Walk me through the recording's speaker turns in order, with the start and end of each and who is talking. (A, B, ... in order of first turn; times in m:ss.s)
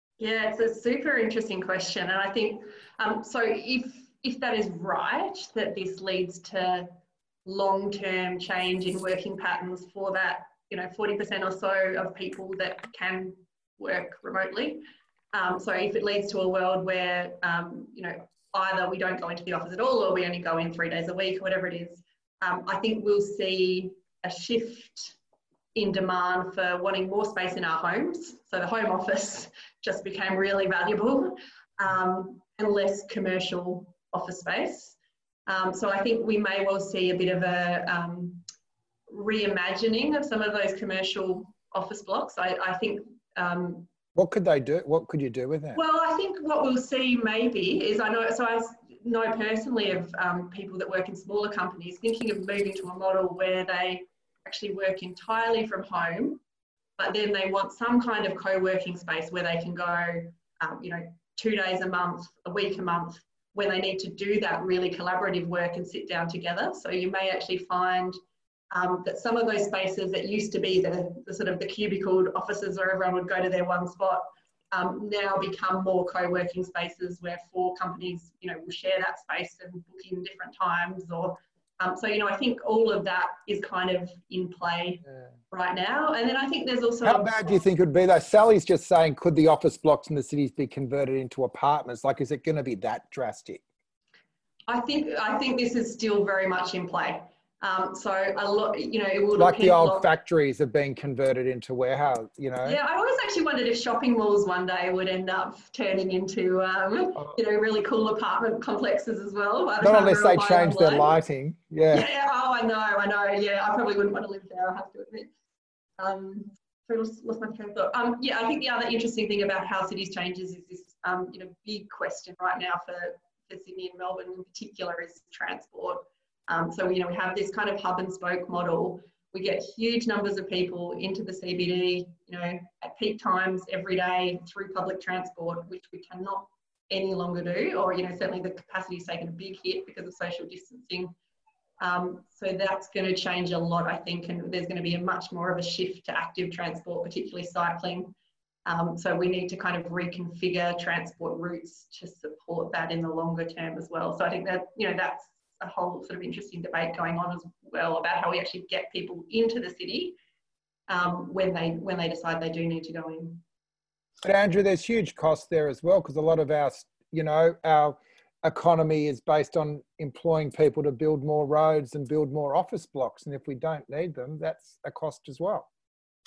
0:00.2-0:06.9 A
0:07.4-0:25.2 A
0:25.7-0:35.0 A
0:35.5-0:38.4 A
0:39.1-0:43.9 A
0:44.2-0:45.8 B
0:45.8-0:56.4 A
0:57.0-1:08.2 A
1:08.7-1:27.4 A
1:27.0-1:33.6 B
1:34.7-1:40.1 A
1:39.4-1:42.8 B
1:42.6-1:51.2 A
1:49.8-1:52.1 B
1:51.9-1:55.3 A
1:56.0-2:21.2 A
2:21.8-2:28.2 A
2:28.7-2:40.2 A
2:40.9-2:43.4 A
2:44.2-2:55.7 B